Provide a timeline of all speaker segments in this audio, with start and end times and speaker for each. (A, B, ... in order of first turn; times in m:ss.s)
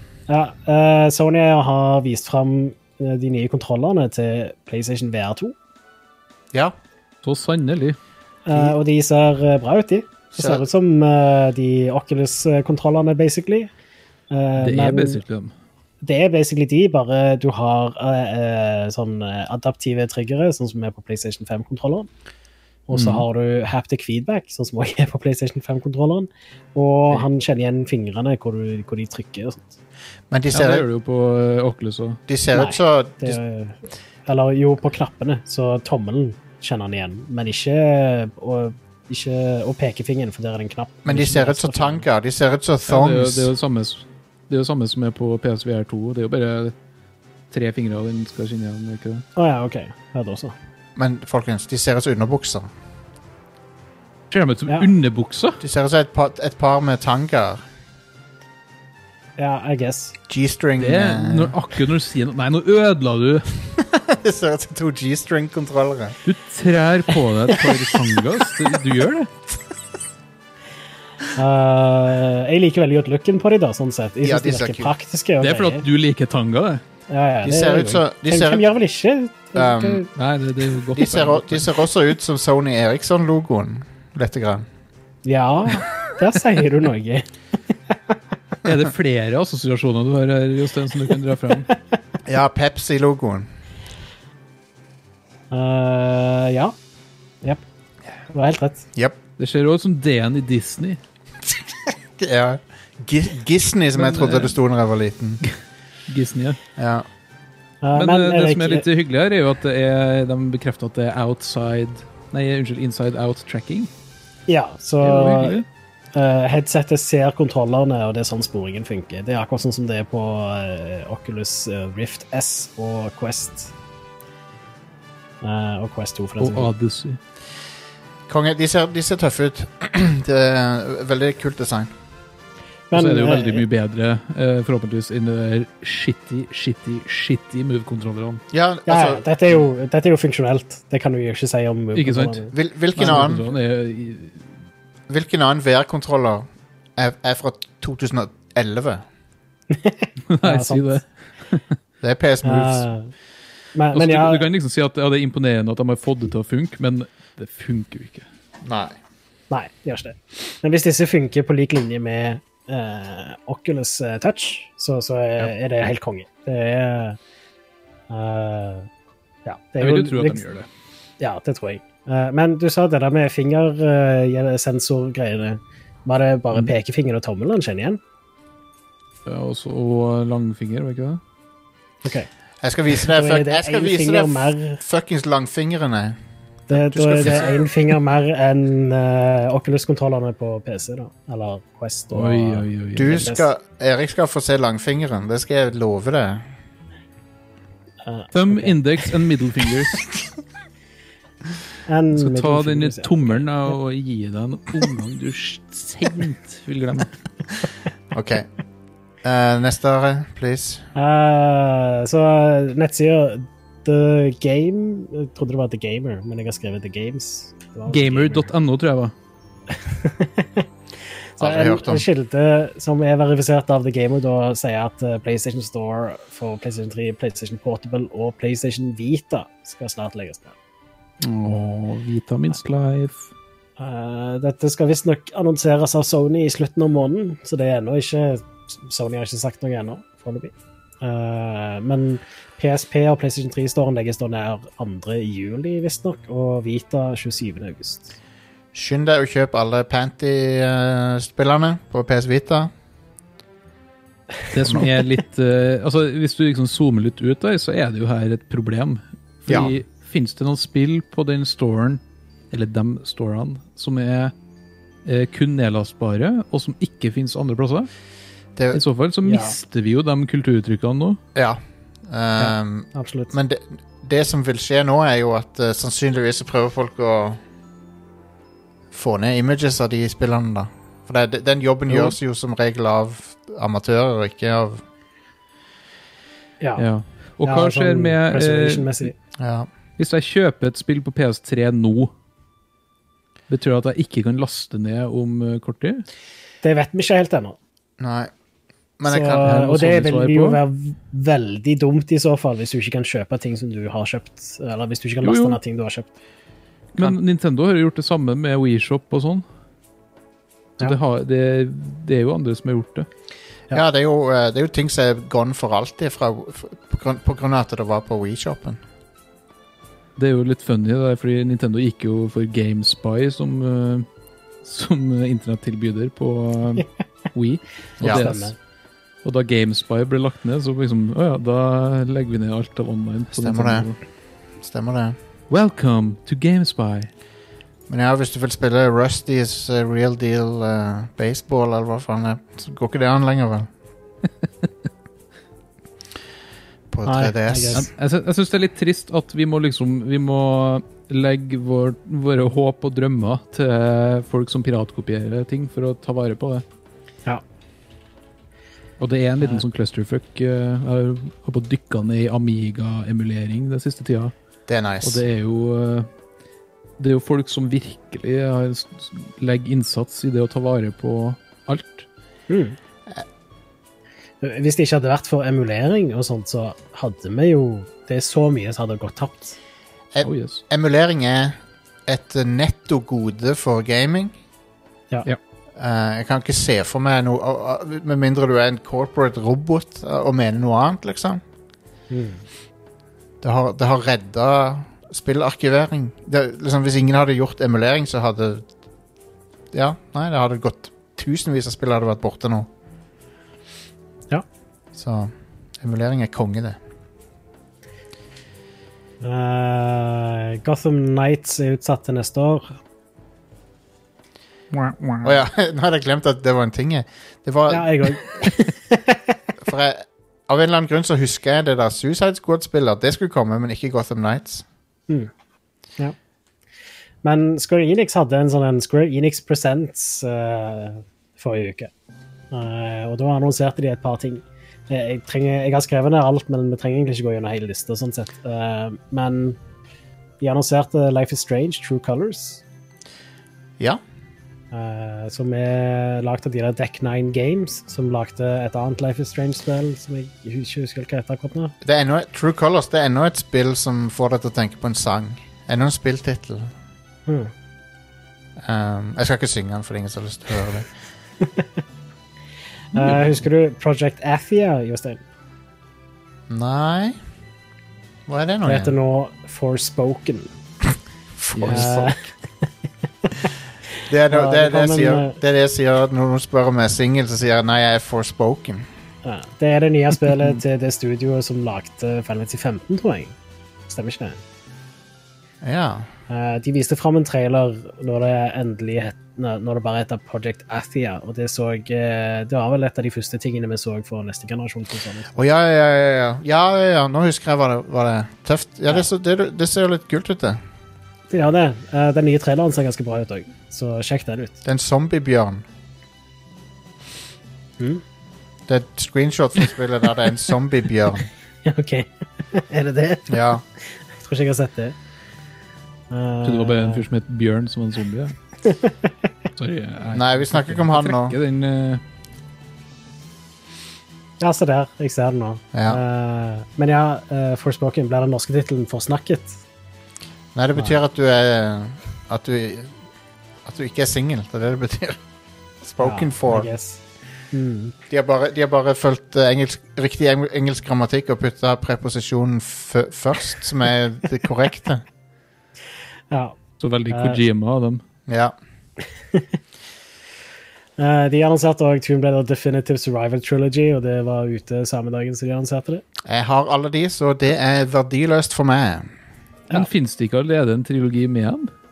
0:00.3-0:05.5 A
0:07.2-0:08.0 B
0:08.4-0:13.7 A
0:08.5-0:08.8 C
0:10.4-0:10.6 C
0:14.3-0:15.2 A
0:14.6-0:15.5 B
0:16.0-0:22.1 A
0:22.9-0:29.8 A
0:22.9-0:23.2 B
0:30.3-0:30.8 C
0:30.5-0:32.2 B
0:32.3-0:33.4 C
0:32.5-0:42.0 A
0:41.0-0:43.5 C
0:42.9-0:46.7 B
0:47.5-0:49.2 B
0:49.4-0:50.5 A
0:51.0-0:52.7 C
0:54.3-0:55.6 B
0:55.6-0:57.6 C
0:59.4-1:00.2 A
1:00.3-1:01.6 C
1:00.8-1:03.5 B
1:03.8-1:06.2 C
1:06.2-1:09.3 B
1:11.3-1:15.8 A
1:14.2-1:14.9 C
1:15.4-1:16.8 B
1:17.1-1:20.1 A
1:17.4-1:18.6 C
1:19.5-1:20.1 C
1:20.1-1:21.8 B
1:20.9-1:24.6 C
1:25.2-1:27.3 A
1:28.6-1:31.7 B
1:32.2-1:33.5 C
1:35.5-1:36.7 A
1:38.3-1:38.8 A
1:39.4-1:41.0 B
1:41.9-1:45.4 C
1:43.9-1:44.6 B
1:46.1-1:46.6 B
1:46.8-1:47.0 C
1:47.8-1:48.8 A
1:47.9-1:53.9 B
1:54.5-1:55.6 A
1:55.0-1:55.6 B
1:56.1-2:03.7 A
2:05.4-2:06.7 A
2:06.4-2:07.2 B
2:08.3-2:11.9 C
2:12.9-2:13.6 A
2:12.9-2:18.4 B
2:18.5-2:19.6 C
2:18.9-2:23.3 A
2:21.9-2:22.4 B
2:22.5-2:23.4 C
2:22.9-2:24.5 B
2:25.1-2:29.0 C
2:29.7-2:31.0 A
2:30.3-2:31.6 B
2:32.0-2:32.9 C
2:32.4-2:33.1 A
2:33.7-2:34.5 A
2:33.9-2:38.3 B
2:38.6-2:39.0 C
2:39.5-2:47.2 A
2:48.1-2:48.9 A
2:49.4-2:50.4 A
2:49.8-2:50.7 B
2:51.2-2:58.0 A
2:59.2-3:01.2 B
3:02.0-3:02.3 A
3:02.6-3:06.2 C
3:02.9-3:04.8 A
3:06.7-3:07.6 C
3:06.7-3:13.5 A
3:12.1-3:13.2 B
3:13.0-3:16.4 C
3:18.0-3:18.8 A
3:18.3-3:20.0 B
3:21.8-3:23.7 A
3:22.1-3:27.1 B
3:28.1-3:28.5 C
3:29.2-3:30.8 C
3:30.9-3:38.5 A
3:37.9-3:39.1 B
3:39.9-3:40.6 A
3:41.4-3:50.5 A
3:41.4-3:42.1 C
3:51.2-3:53.3 B
3:53.8-4:08.1 A
4:08.7-4:12.7 C
4:14.5-4:24.3 B
4:14.6-4:14.9 C
4:19.5-4:19.8 C
4:25.0-4:27.9 B
4:28.6-4:28.8 C
4:28.7-4:31.2 B
4:29.2-4:29.6 A
4:31.3-4:37.4 C
4:32.4-4:33.3 A
4:38.9-4:44.8 C
4:46.6-4:46.8 A
4:46.8-4:49.1 B
4:47.4-4:49.1 A
4:49.4-4:49.7 C
4:50.0-4:52.1 B
4:53.5-4:56.0 B
4:56.6-4:57.6 A
4:58.0-4:58.3 C
4:59.0-4:59.6 C
4:59.0-5:06.1 A
4:59.4-5:00.6 B
5:05.2-5:05.6 B
5:06.9-5:09.4 B
5:10.8-5:13.1 B
5:13.7-5:18.8 C
5:20.2-5:24.0 B
5:24.6-5:28.5 B
5:28.0-5:28.3 C
5:28.0-5:28.5 A
5:29.2-5:34.0 B
5:33.3-5:33.9 C
5:34.6-5:35.2 C
5:35.5-5:37.1 B
5:37.9-5:43.7 C
5:46.9-5:47.8 C
5:47.0-5:47.9 A
5:47.7-5:56.6 B
5:59.0-6:04.3 B
6:04.7-6:05.2 C
6:05.0-6:06.1 B
6:07.0-6:12.1 B
6:12.5-6:12.8 A
6:14.4-6:19.6 A
6:20.1-6:24.3 C
6:20.2-6:20.6 B
6:25.8-6:31.4 C
6:32.1-6:32.4 A
6:33.4-6:38.7 C
6:39.7-6:42.7 C
6:44.9-6:46.8 C
6:49.2-6:52.8 A
6:54.7-6:55.3 B
6:55.2-6:58.2 C
6:57.7-6:59.4 A
6:59.6-7:04.6 C
7:07.2-7:11.9 A
7:12.5-7:19.6 A
7:20.4-7:22.6 A
7:24.7-7:31.7 A
7:31.8-7:36.7 C
7:38.6-7:40.9 C
7:42.9-7:45.2 A
7:42.9-7:43.4 B
7:46.5-7:47.2 C
7:48.3-7:48.9 C
7:48.6-7:50.5 A
7:51.4-7:52.2 C
7:51.5-7:51.9 B
7:51.7-7:52.2 A
7:54.0-7:58.9 C
7:54.3-7:55.4 A
7:59.2-8:03.3 A
8:03.9-8:04.4 A
8:05.6-8:06.1 C
8:06.3-8:15.3 A
8:15.3-8:20.6 C
8:21.3-8:24.6 A
8:24.6-8:25.6 C
8:28.7-8:31.3 C
8:31.6-8:34.9 A
8:33.3-8:33.6 C
8:36.1-8:37.0 A
8:36.4-8:38.3 B
8:38.7-8:38.9 A
8:39.6-8:42.0 B
8:40.1-8:41.4 C
8:44.4-8:49.6 A
8:45.7-8:46.0 C
8:50.5-8:52.9 C
8:53.6-8:55.2 C
8:55.8-8:56.7 C
8:56.0-8:57.0 A
8:57.5-8:57.9 A
8:58.1-9:05.0 C
9:06.3-9:06.6 A
9:06.8-9:08.0 B
9:07.1-9:07.4 A
9:08.3-9:08.5 C
9:11.0-9:16.0 A
9:16.2-9:19.1 C
9:19.7-9:21.7 B